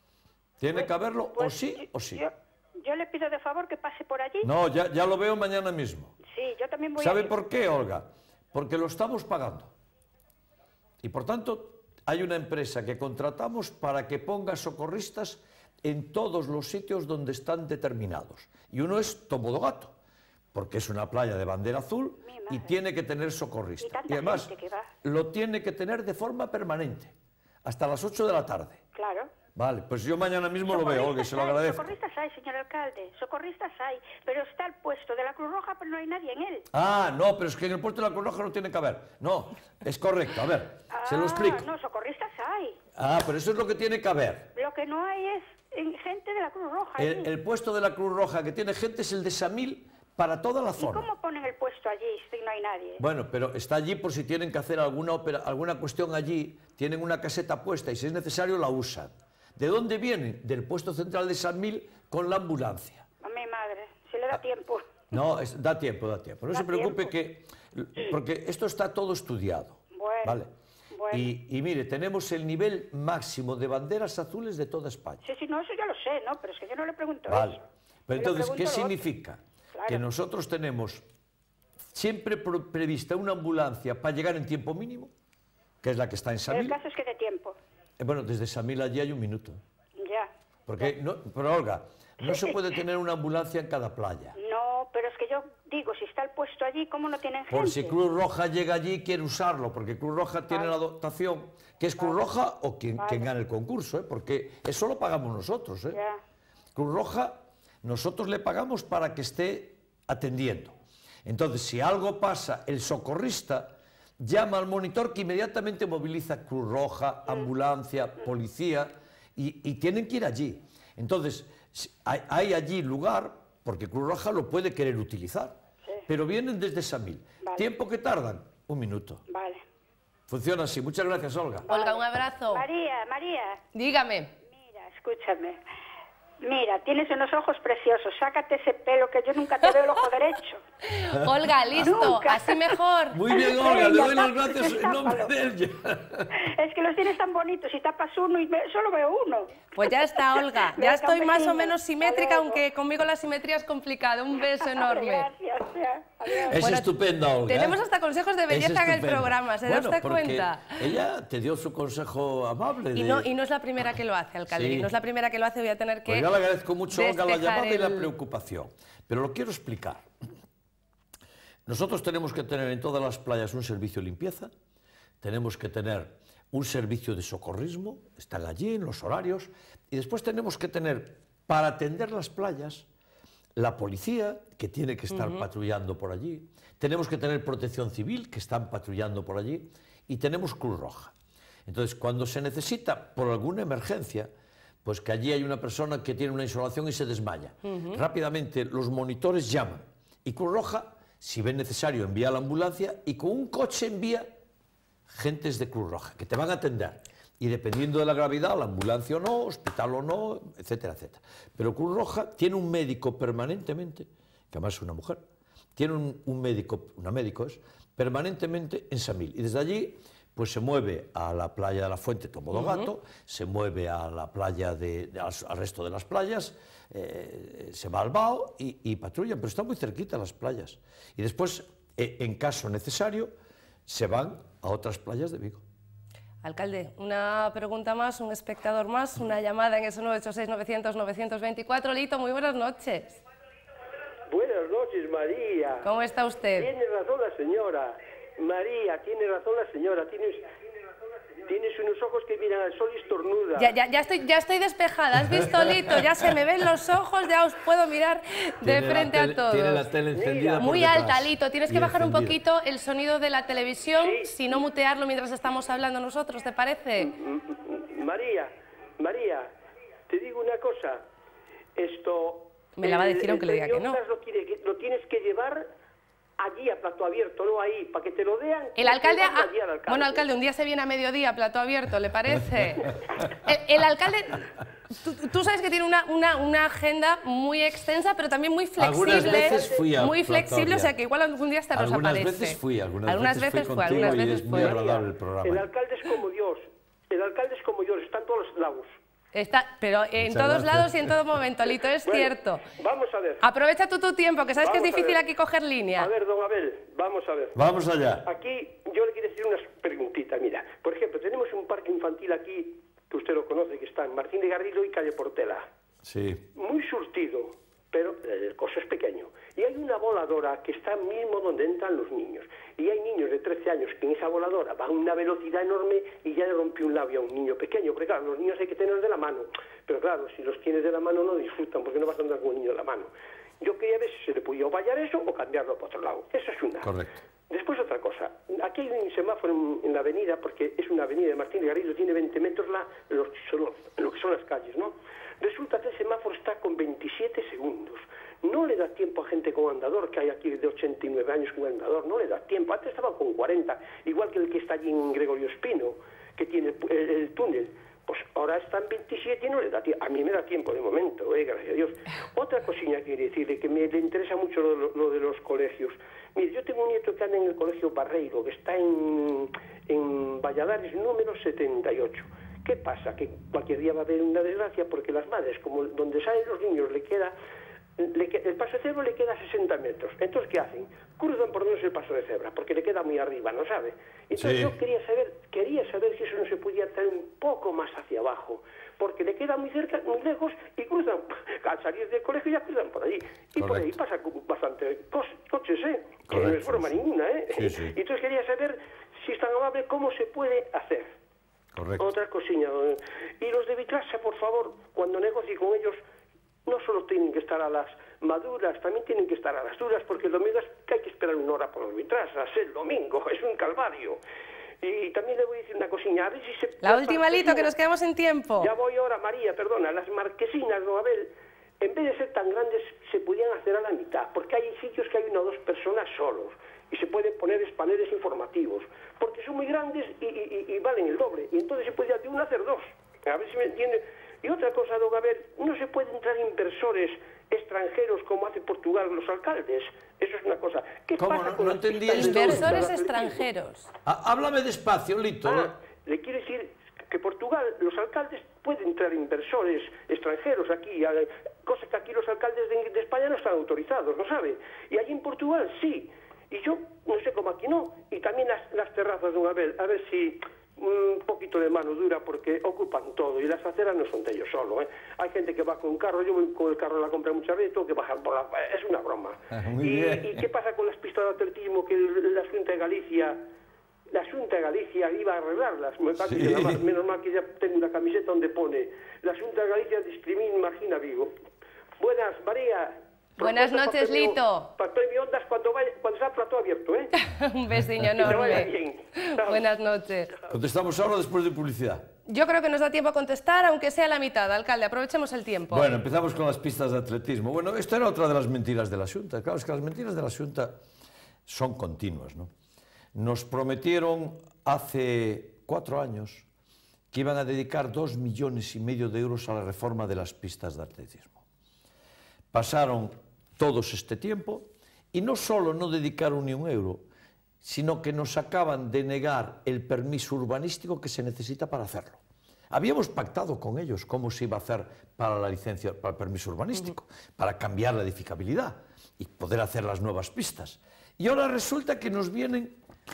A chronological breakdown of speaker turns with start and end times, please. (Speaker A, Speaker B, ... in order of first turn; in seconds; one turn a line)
Speaker A: 0.6-2.2
Speaker B: 0.7-4.5
Speaker A: 4.4-6.1
Speaker B: 6.2-7.3
Speaker A: 7.0-9.7
Speaker A: 11.0-19.9
Speaker A: 20.5-24.5
Speaker B: 22.2-22.7
Speaker B: 23.8-24.9
Speaker A: 25.0-28.8
Speaker B: 28.9-29.3
Speaker A: 29.5-31.9
Speaker B: 30.7-36.6
Speaker A: 36.7-41.6
Speaker B: 40.9-42.8
Speaker A: 43.0-44.5
Speaker B: 44.5-47.3
Speaker A: 47.0-51.1
Speaker B: 50.8-53.0
Speaker A: 53.0-63.0
Speaker B: 63.2-65.1
Speaker A: 65.1-70.5
Speaker B: 66.5-67.1
Speaker B: 69.9-70.4
Speaker B: 70.9-71.3
Speaker A: 71.1-75.2
Speaker B: 75.2-77.6
Speaker A: 77.3-81.0
Speaker B: 78.2-79.0
Speaker B: 79.7-80.0
Speaker A: 81.9-85.1
Speaker A: 85.8-86.8
Speaker B: 86.5-87.6
Speaker A: 88.0-89.6
Speaker B: 90.0-90.9
Speaker A: 90.7-94.3
Speaker B: 92.2-92.5
Speaker B: 94.4-97.9
Speaker A: 97.5-106.0
Speaker B: 103.0-103.3
Speaker B: 105.9-106.2
Speaker A: 106.7-110.7
Speaker A: 111.2-129.2
Speaker B: 129.3-129.6
Speaker A: 130.3-131.7
Speaker B: 131.7-133.6
Speaker C: 131.7-132.6
Speaker C: 133.7-134.3
Speaker B: 134.4-135.6
Speaker B: 136.4-140.6
Speaker C: 140.8-143.5
Speaker A: 141.1-142.2
Speaker B: 141.8-142.8
Speaker A: 143.1-146.3
Speaker B: 143.3-145.3
Speaker B: 146.3-152.6
Speaker C: 149.8-155.3
Speaker B: 154.6-156.6
Speaker A: 156.5-157.8
Speaker C: 156.6-156.9
Speaker C: 157.5-161.0
Speaker A: 158.5-163.3
Speaker C: 162.9-166.3
Speaker A: 164.5-164.9
Speaker A: 166.1-170.1
Speaker C: 166.9-168.1
Speaker A: 171.7-174.5
Speaker A: 175.2-182.9
Speaker A: 183.6-191.1
Speaker C: 185.1-185.4
Speaker A: 191.7-194.3
Speaker A: 194.8-204.3
Speaker C: 197.7-198.0
Speaker A: 205.1-215.2
Speaker A: 215.8-233.3
Speaker A: 233.8-235.6
Speaker C: 236.4-243.2
Speaker D: 244.3-245.9
Speaker C: 245.8-246.7
Speaker D: 246.6-250.5
Speaker D: 251.4-253.7
Speaker C: 253.6-259.9
Speaker A: 255.3-256.0
Speaker A: 258.6-262.4
Speaker D: 260.1-260.6
Speaker C: 260.6-267.1
Speaker D: 264.0-264.3
Speaker D: 267.0-269.5
Speaker D: 270.1-271.0
Speaker D: 271.8-275.7
Speaker C: 272.8-274.0
Speaker D: 276.4-280.2
Speaker C: 278.8-294.8
Speaker A: 288.8-290.9
Speaker D: 289.0-289.9
Speaker A: 291.7-295.7
Speaker D: 293.9-298.9
Speaker C: 299.3-302.6
Speaker A: 300.2-301.2
Speaker D: 302.1-303.4
Speaker C: 303.4-306.1
Speaker D: 304.6-305.2
Speaker D: 306.0-307.6
Speaker A: 307.5-308.3
Speaker D: 308.2-315.7
Speaker A: 316.0-316.5
Speaker D: 316.5-333.1
Speaker D: 333.6-336.9
Speaker A: 336.8-337.1
Speaker D: 337.5-377.3
Speaker D: 378.0-401.1
Speaker A: 384.4-384.8
Speaker A: 393.6-394.0
Speaker A: 396.3-397.0
Speaker A: 397.5-397.9
Speaker A: 401.7-402.1
Speaker D: 402.0-406.0
Speaker D: 406.6-414.2
Speaker D: 414.8-417.7
Speaker C: 416.8-418.7
Speaker D: 418.6-443.4
Speaker A: 441.2-442.8
Speaker C: 442.1-443.9
Speaker A: 444.0-445.8
Speaker D: 445.4-473.4
Speaker A: 469.5-470.4
Speaker D: 474.1-481.3
Speaker A: 476.2-476.8
Speaker D: 482.0-487.1
Speaker C: 483.4-484.7
Speaker C: 487.2-490.3
Speaker D: 488.2-489.6
Speaker A: 490.5-492.1
Speaker C: 492.3-495.9
Speaker A: 495.7-500.8
Speaker A: 501.4-502.5
Speaker A: 503.1-506.5
Speaker A: 507.1-511.4
Speaker A: 512.5-517.0
Speaker A: 517.6-522.2
Speaker A: 522.7-532.8